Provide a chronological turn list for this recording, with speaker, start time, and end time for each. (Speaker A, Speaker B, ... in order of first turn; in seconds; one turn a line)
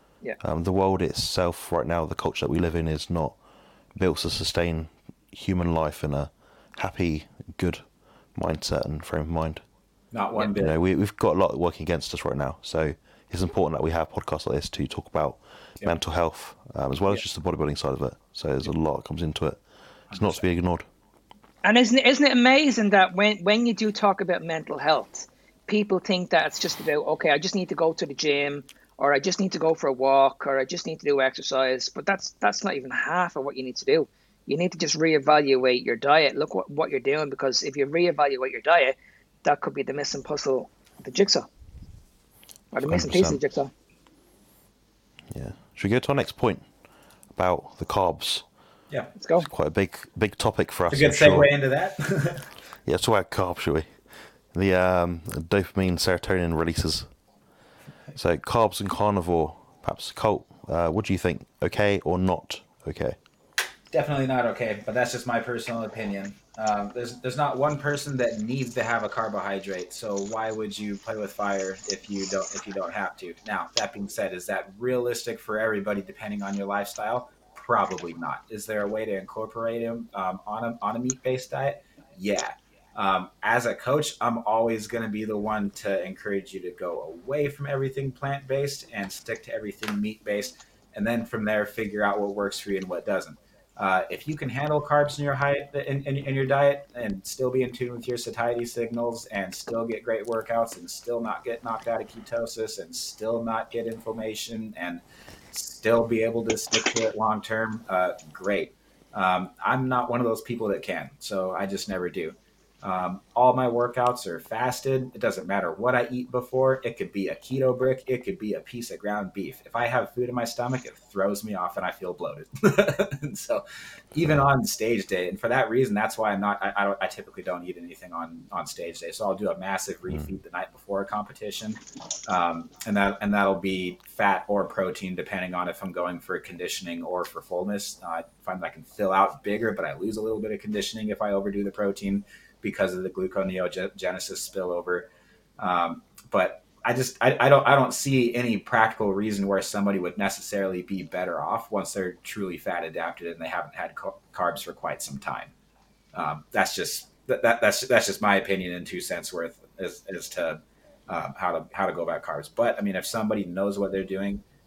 Speaker A: 0.4-3.4
Speaker A: 4.0-7.8
Speaker A: 8.3-9.6
Speaker B: 10.1-10.8
Speaker A: 10.6-19.6
Speaker B: 20.1-20.4
Speaker A: 20.1-20.9
Speaker C: 21.6-41.5
Speaker C: 42.7-43.7
Speaker A: 42.9-43.4
Speaker A: 45.3-46.7
Speaker A: 47.4-48.5
Speaker C: 49.2-49.5
Speaker A: 49.4-51.5
Speaker B: 50.9-52.5
Speaker A: 52.9-57.1
Speaker A: 58.1-63.2
Speaker B: 63.9-155.5
Speaker B: 156.1-164.4